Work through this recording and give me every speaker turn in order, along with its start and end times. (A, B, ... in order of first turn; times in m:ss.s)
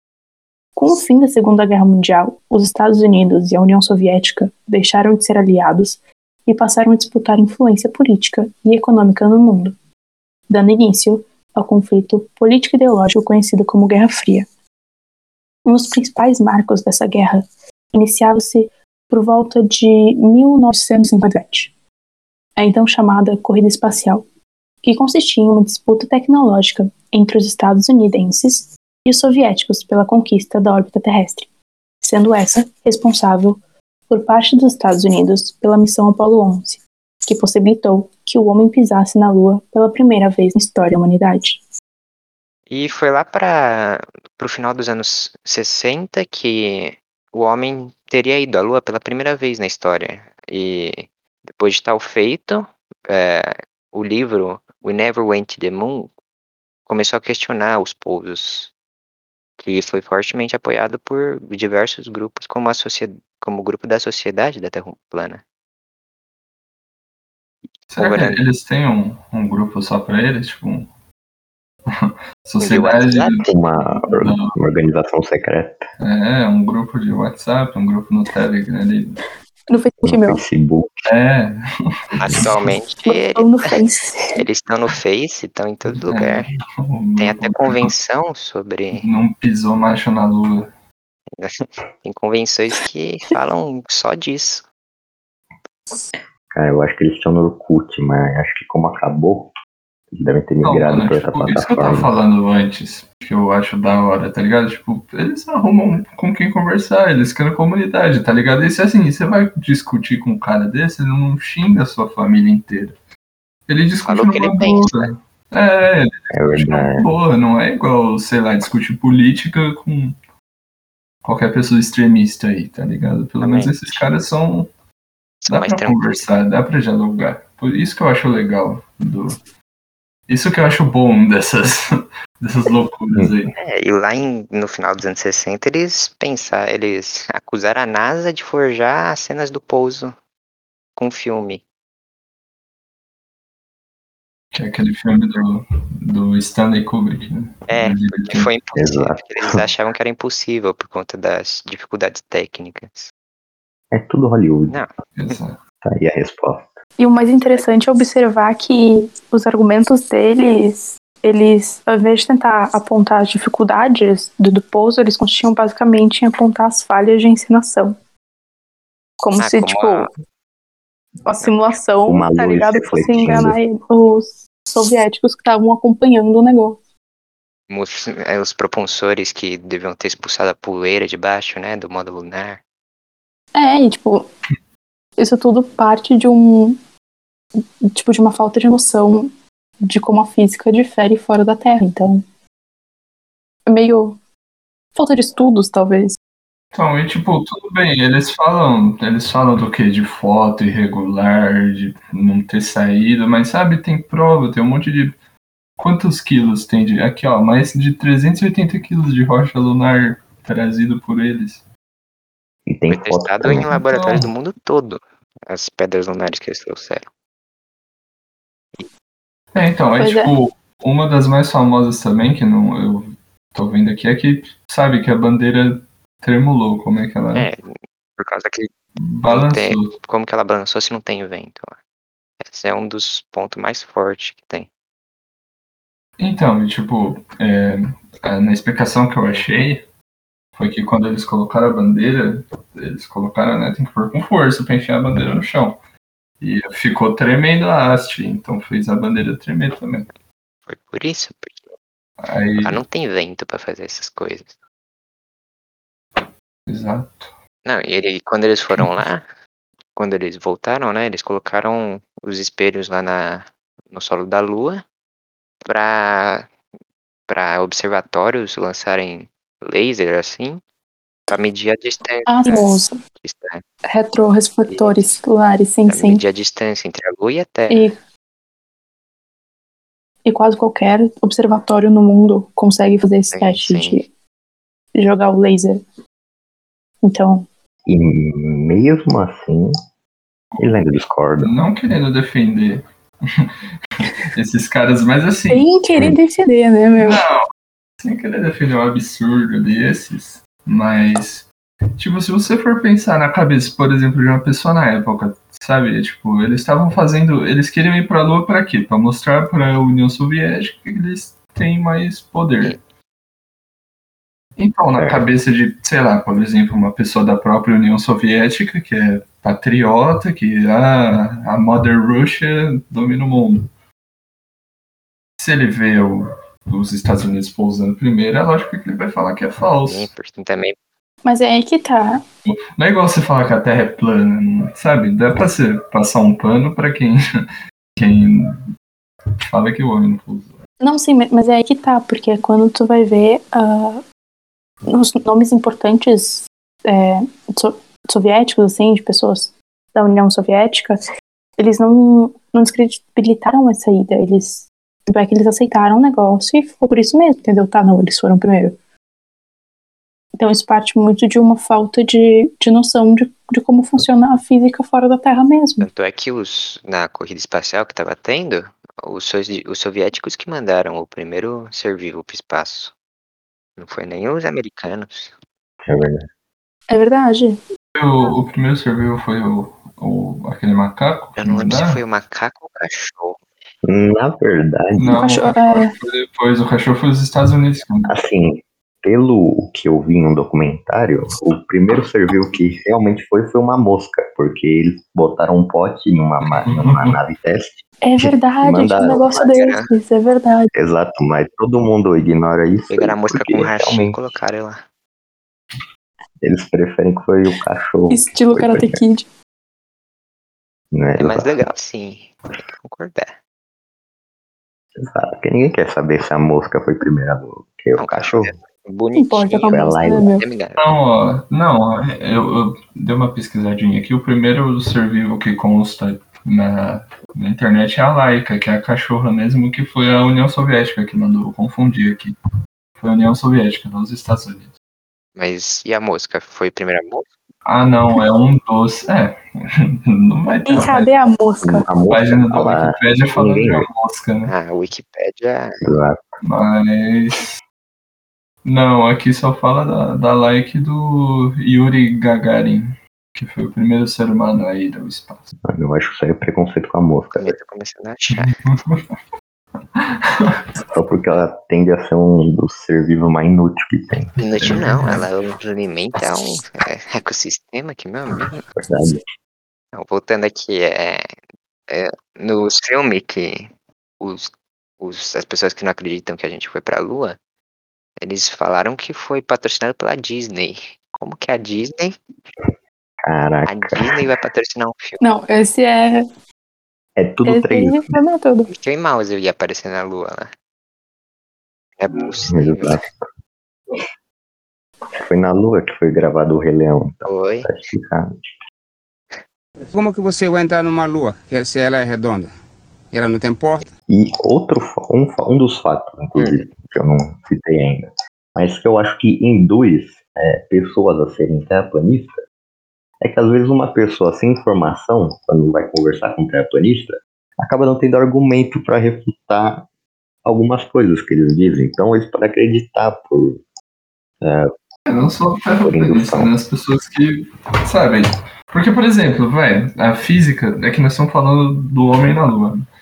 0:00.8-0:09.8 A
0:10.5-0:14.5 A
0:15.6-0:21.7 A
0:22.6-0:24.2 A
0:24.8-0:31.5 A
0:32.0-0:41.6 A
0:42.7-0:56.1 B
0:56.9-0:58.7 B
0:59.6-1:05.4 B
1:07.9-1:10.9 C
1:08.0-1:08.4 B
1:11.9-1:14.5 C
1:12.6-1:13.6 B
1:13.5-1:15.9 D
1:16.0-1:19.2 C
1:19.7-1:20.4 A
1:20.0-1:20.9 D
1:21.1-1:21.5 C
1:22.2-1:23.6 B
1:22.2-1:22.5 C
1:23.0-1:24.4 A
1:24.4-1:26.5 B
1:26.1-1:27.9 C
1:27.2-1:29.1 B
1:29.0-1:30.7 C
1:31.4-1:34.7 B
1:36.5-1:39.5 D
1:40.1-1:42.1 D
1:40.6-1:53.0 C
1:53.7-2:00.2 C
1:54.1-1:55.1 B
1:56.3-1:57.1 D
2:01.2-2:04.7 C
2:03.4-2:04.1 B
2:05.5-2:06.3 B
2:05.5-2:09.4 C
2:10.3-2:11.8 C
2:12.4-2:13.5 C
2:13.6-2:20.2 B
2:21.0-2:21.6 B
2:24.5-2:28.5 C
2:27.7-2:33.1 B
2:28.8-2:29.2 D
2:33.9-2:34.8 D
2:34.7-2:35.4 B
2:35.2-2:35.6 C
2:35.8-2:36.7 D
2:37.0-2:48.0 A
2:49.2-2:50.2 A
2:49.4-2:50.1 B
2:51.3-2:56.8 A
2:51.4-2:51.8 B
2:52.0-2:53.6 D
2:57.7-3:02.6 B
3:03.5-3:04.3 A
3:05.2-3:06.8 A
3:08.0-3:09.3 A
3:09.9-3:12.2 A
3:13.7-3:14.2 A
3:15.0-3:16.2 A
3:16.7-3:25.2 C
3:25.8-3:31.6 C
3:32.7-3:33.7 D
3:32.9-3:37.1 B
3:33.7-3:34.3 C
3:39.5-3:47.5 C
3:40.0-3:40.3 A
3:47.4-3:48.7 B
3:49.0-3:49.9 C
3:49.3-3:51.8 B
3:52.4-3:54.7 B
3:56.2-3:59.8 C
4:00.6-4:05.8 C
4:06.4-4:10.1 C
4:10.7-4:11.7 B
4:12.2-4:12.8 C
4:12.6-4:14.5 B
4:16.7-4:17.3 C
4:17.6-4:19.2 B
4:19.9-4:24.8 B
4:25.6-4:26.5 B
4:27.3-4:30.6 B
4:31.3-4:33.6 B
4:32.3-4:33.0 A
4:33.9-4:36.2 A
4:34.7-4:35.1 B
4:35.9-4:37.9 B
4:40.2-4:44.1 A
4:43.3-4:44.0 B
4:45.0-4:45.8 A
4:47.0-4:47.5 A
4:47.9-4:49.8 D
4:50.5-4:50.8 C
4:50.6-4:51.5 D
4:51.4-4:52.8 C
4:54.3-4:55.7 C
4:55.5-4:57.2 A
4:57.0-4:57.4 C
4:58.0-5:12.8 C
5:14.6-5:23.7 C
5:15.0-5:15.3 D
5:25.4-5:30.1 C
5:29.8-5:30.8 B
5:31.2-5:32.2 A
5:32.4-5:37.2 C
5:38.0-5:38.5 C
5:39.5-5:40.6 C
5:40.8-5:44.0 A
5:44.9-5:51.0 A
5:51.6-5:58.8 A
6:00.4-6:05.9 A
6:05.8-6:12.9 B
6:13.8-6:15.4 B
6:15.8-6:16.3 D
6:16.9-6:17.6 A
6:18.0-6:22.0 C
6:21.4-6:23.4 B
6:23.8-6:25.2 D
6:25.0-6:28.1 C
6:25.1-6:26.0 A
6:28.1-6:39.3 D
6:36.5-6:37.2 C
6:38.0-6:40.7 A
6:39.2-6:39.9 B
6:40.7-6:44.2 D
6:42.9-6:44.8 B
6:46.4-6:49.0 D
6:48.1-6:49.3 A
6:50.9-6:51.6 D
6:51.2-6:53.4 B
6:55.0-6:58.5 D
6:58.0-7:00.8 B
6:59.2-7:00.4 A
6:59.7-7:00.3 D
7:00.8-7:12.4 C
7:13.0-7:14.7 C
7:15.4-7:17.3 B
7:17.6-7:21.1 C
7:20.7-7:21.9 A
7:21.6-7:23.9 D
7:22.1-7:24.5 C
7:24.4-7:25.8 B
7:25.8-7:26.2 D
7:26.4-7:27.6 C
7:28.6-7:35.5 C
7:35.7-7:37.6 D
7:37.3-7:38.5 B
7:38.4-7:39.0 C
7:40.0-7:40.6 C
7:40.9-7:44.3 D
7:44.4-7:48.6 B
7:44.6-7:45.3 C
7:48.8-7:49.2 D
7:49.9-7:51.3 B
7:51.9-7:57.4 B
7:58.2-8:02.2 B
8:03.2-8:04.2 D
8:03.7-8:05.2 B
8:05.2-8:06.3 A
8:07.2-8:08.2 D
8:07.4-8:08.7 A
8:08.7-8:10.5 B
8:12.0-8:13.0 B
8:12.5-8:13.3 D
8:15.2-8:18.4 D
8:17.2-8:17.7 B
8:20.0-8:22.5 E
8:23.3-8:23.9 E
8:24.1-8:32.4 D
8:26.4-8:26.7 B
8:33.2-8:39.9 D
8:40.4-8:43.6 D
8:44.4-8:44.7 D
8:45.1-8:52.8 C
8:45.9-8:46.5 D